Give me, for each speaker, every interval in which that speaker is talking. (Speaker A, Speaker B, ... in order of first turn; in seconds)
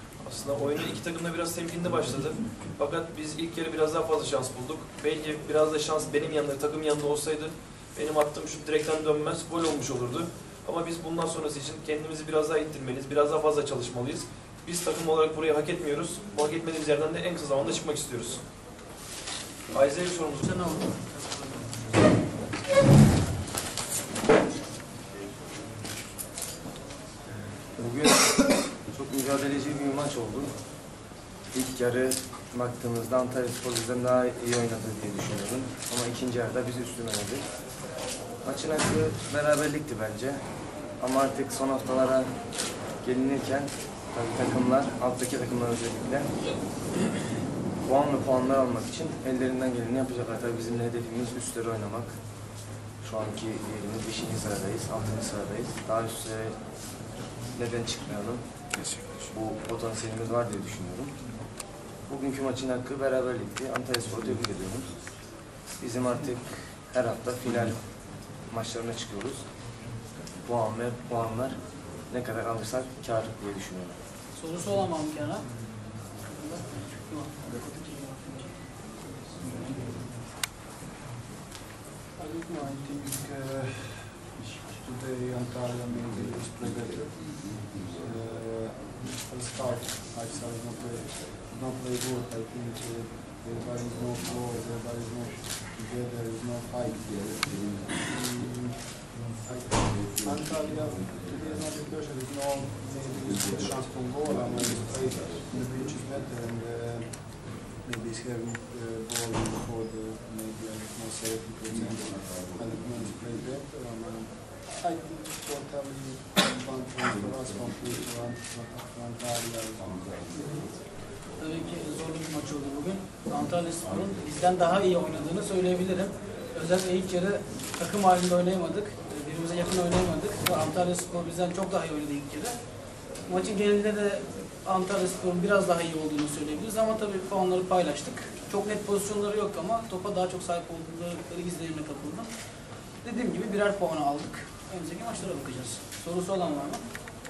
Speaker A: 0.2-18.4, 19.7-20.8
Speaker B: 20.4-22.1, 74.3-75.5, 76.2-78.6, 120.3-120.7, 121.3-132.6, 133.2-142.3, 143.0-146.8
Speaker C: 27.8-28.3, 28.9-30.5, 31.5-37.4, 38.4-40.4, 41.0-42.3, 43.0-46.3, 47.8-52.2, 53.0-56.5, 57.5-58.4, 59.2-61.1, 62.1-64.9, 65.8-67.9, 68.5-69.5, 70.4-74.0
Speaker D: 82.2-120.2